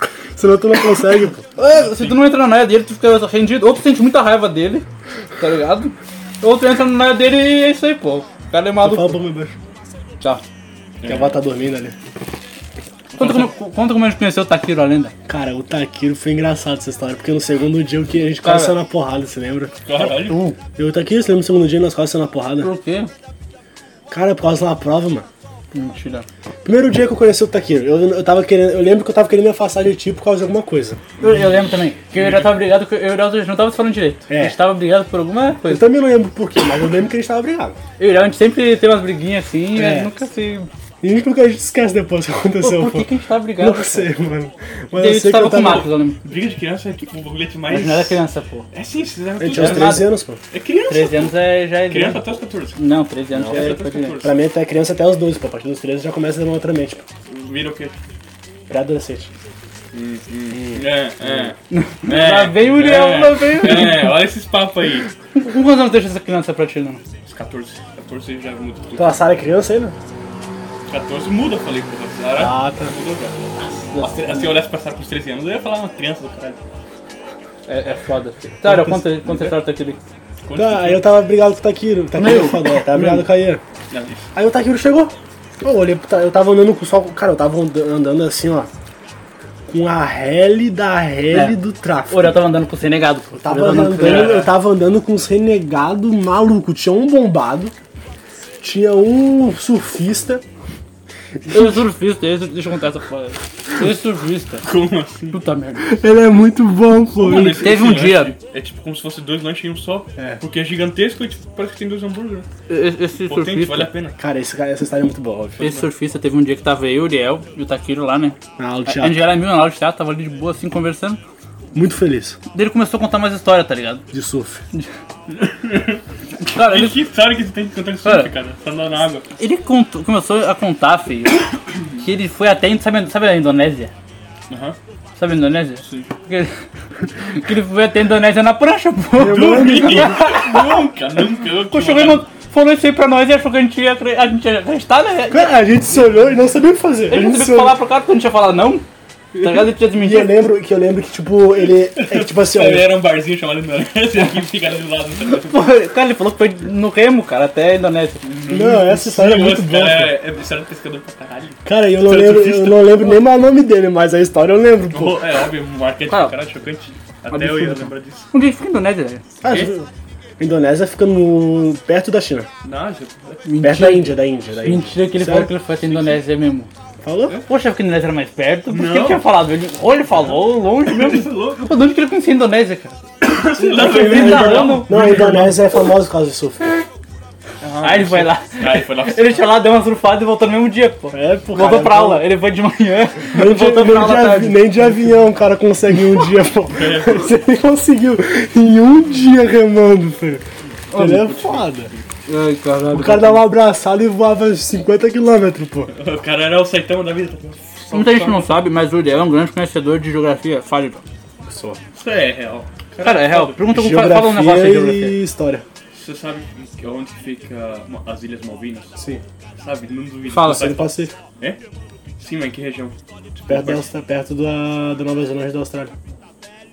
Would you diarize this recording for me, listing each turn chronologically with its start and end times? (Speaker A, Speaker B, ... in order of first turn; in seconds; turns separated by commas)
Speaker A: 0.4-1.4, Speaker B: 1.6-4.9, Speaker C: 1.7-2.2, Speaker B: 5.4-9.2, Speaker A: 8.8-9.6, Speaker C: 11.0-11.4, Speaker A: 11.1-11.9, Speaker C: 13.1-13.5, Speaker B: 13.2-15.1, Speaker A: 15.3-22.7, Speaker B: 18.4-18.8, Speaker C: 19.9-20.4, Speaker B: 20.3-20.6, Speaker B: 22.6-23.1, Speaker A: 24.1-25.3, Speaker B: 25.7-26.3, Speaker A: 26.6-31.0, Speaker B: 31.2-35.9, Speaker C: 32.1-32.6, Speaker A: 34.3-34.6, Speaker A: 35.7-37.8, Speaker B: 38.0-40.7, Speaker A: 39.7-40.1, Speaker A: 41.0-45.9, Speaker B: 42.6-44.1, Speaker B: 45.0-46.2, Speaker C: 45.6-48.2, Speaker B: 47.7-48.7, Speaker C: 48.7-51.4, Speaker A: 49.4-50.4, Speaker B: 49.5-50.1, Speaker B: 50.9-52.2, Speaker C: 51.9-52.8, Speaker B: 52.8-54.2, Speaker A: 53.4-57.0, Speaker C: 53.4-54.4, Speaker C: 57.3-58.0, Speaker A: 58.7-59.3, Speaker C: 59.9-65.1, Speaker A: 60.5-61.5, Speaker B: 61.7-64.2, Speaker B: 65.3-67.0, Speaker C: 67.2-69.2, Speaker A: 69.0-70.0, Speaker C: 70.9-76.6, Speaker A: 72.3-73.0, Speaker B: 73.6-74.5, Speaker B: 77.7-80.0, Speaker A: 78.6-79.5, Speaker C: 80.4-81.1, Speaker A: 80.5-83.6, Speaker B: 82.2-83.3, Speaker C: 83.9-84.3, Speaker A: 84.3-88.7, Speaker A: 89.7-92.4, Speaker B: 91.3-91.6, Speaker B: 92.1-94.5, Speaker A: 93.4-97.7, Speaker C: 93.9-94.5, Speaker A: 98.6-100.4, Speaker B: 101.5-104.7, Speaker C: 104.6-105.4, Speaker B: 105.3-105.9, Speaker A: 105.8-107.7, Speaker C: 107.2-112.5, Speaker B: 107.3-108.3, Speaker B: 112.7-113.9, Speaker C: 113.3-114.2, Speaker A: 114.2-115.6, Speaker C: 115.6-115.9, Speaker B: 115.6-121.2, Speaker A: 118.6-119.3, Speaker A: 121.7-122.4, Speaker B: 122.5-124.0, Speaker A: 124.1-124.6, Speaker C: 125.3-126.0, Speaker B: 126.4-127.0, Speaker C: 126.5-129.3, Speaker B: 128.0-128.3, Speaker B: 129.4-131.4, Speaker B: 132.0-133.9, Speaker C: 134.5-134.8, Speaker B: 135.2-136.6, Speaker C: 135.8-136.1, Speaker B: 137.2-140.9, Speaker A: 139.2-140.2, Speaker C: 139.2-142.2, Speaker B: 141.7-145.5, Speaker A: 145.3-147.8, Speaker B: 147.1-148.9, Speaker C: 149.3-149.7, Speaker B: 149.4-150.4, Speaker A: 149.9-153.0, Speaker C: 151.9-155.6, Speaker B: 155.3-158.2, Speaker C: 158.2-163.1, Speaker A: 158.5-160.2, Speaker A: 161.7-165.2, Speaker C: 164.9-168.3, Speaker B: 166.1-166.3, Speaker B: 167.3-169.2, Speaker A: 169.4-169.9, Speaker A: 170.4-172.5, Speaker C: 172.6-173.4, Speaker B: 173.4-176.7, Speaker A: 173.6-175.5, Speaker C: 175.8-176.2, Speaker A: 177.0-177.4, Speaker B: 177.5-183.0, Speaker C: 178.7-179.2, Speaker C: 180.2-181.8, Speaker C: 183.2-185.6, Speaker A: 183.6-186.8, Speaker B: 183.6-185.2, Speaker C: 187.6-189.5, Speaker B: 187.8-194.6, Speaker A: 191.1-192.3, Speaker A: 193.3-200.4, Speaker C: 196.7-197.3, Speaker B: 200.9-201.3, Speaker A: 200.9-201.9, Speaker C: 201.0-202.1, Speaker B: 202.3-203.4, Speaker A: 202.9-205.9, Speaker C: 205.9-208.6, Speaker B: 207.9-211.0, Speaker A: 211.5-211.8, Speaker C: 211.9-213.6, Speaker B: 213.0-215.2, Speaker A: 213.7-215.7, Speaker C: 215.9-218.9, Speaker A: 219.0-219.2, Speaker C: 219.6-221.6, Speaker B: 220.3-220.8, Speaker A: 220.4-221.1, Speaker C: 222.2-223.8, Speaker A: 223.5-225.9